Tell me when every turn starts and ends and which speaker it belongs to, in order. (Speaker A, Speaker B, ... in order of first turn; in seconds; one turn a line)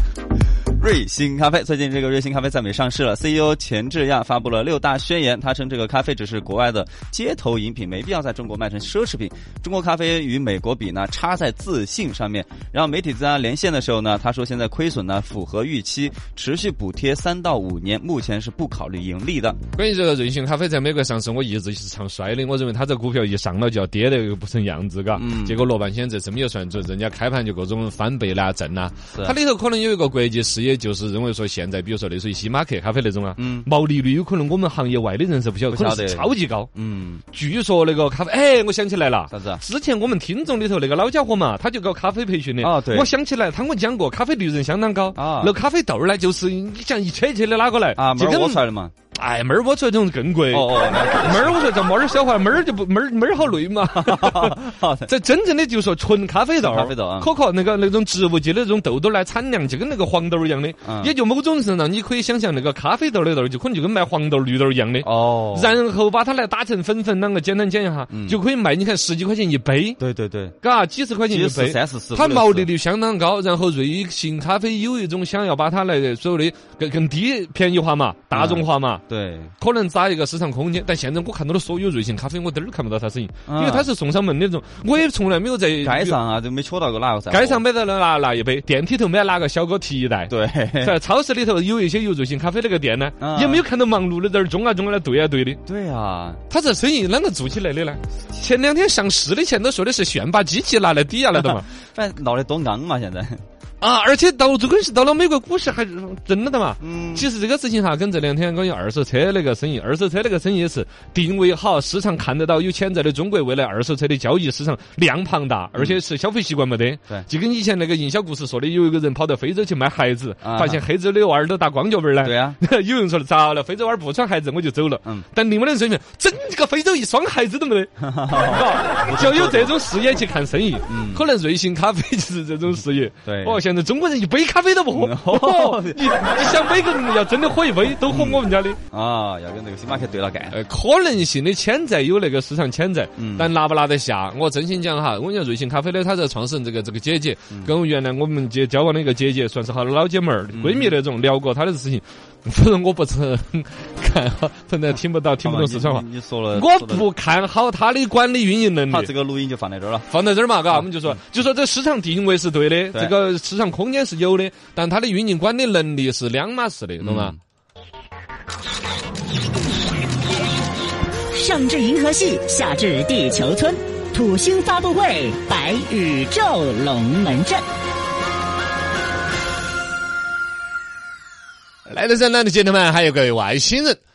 Speaker A: 0.8-19.6
Speaker B: 19.7-36.7
Speaker A: 25.1-25.6
Speaker A: 33.4-33.7
Speaker A: 35.7-37.2
Speaker B: 37.3-48.6
Speaker A: 39.3-39.6
Speaker A: 42.6-43.1
Speaker A: 45.1-45.5
Speaker A: 47.9-48.9
Speaker B: 49.1-70.0
Speaker A: 50.5-51.6
Speaker A: 54.0-55.1
Speaker A: 56.6-57.3
Speaker A: 60.8-61.1
Speaker A: 65.0-65.7
Speaker A: 68.1-68.4
Speaker A: 70.0-70.5
Speaker B: 70.6-79.0
Speaker A: 71.3-72.7
Speaker A: 78.3-79.5
Speaker B: 79.6-86.2
Speaker A: 83.5-83.9
Speaker A: 85.8-87.6
Speaker B: 87.3-95.6
Speaker A: 90.3-90.9
Speaker A: 93.2-93.6
Speaker A: 95.6-96.4
Speaker B: 96.5-101.7
Speaker A: 101.8-103.4
Speaker B: 103.8-138.8
Speaker A: 106.8-107.3
Speaker A: 120.4-120.8
Speaker A: 122.2-122.6
Speaker A: 128.0-129.8
Speaker A: 130.9-131.2
Speaker A: 133.2-133.6
Speaker A: 134.9-136.0
Speaker A: 138.1-140.6
Speaker B: 140.5-159.1
Speaker A: 143.2-143.5
Speaker A: 150.5-151.0
Speaker A: 155.4-157.1
Speaker A: 158.9-160.1
Speaker B: 160.1-167.3
Speaker A: 160.7-161.2
Speaker A: 167.0-167.4
Speaker C: 171.3-177.7
Speaker B: 181.9-184.0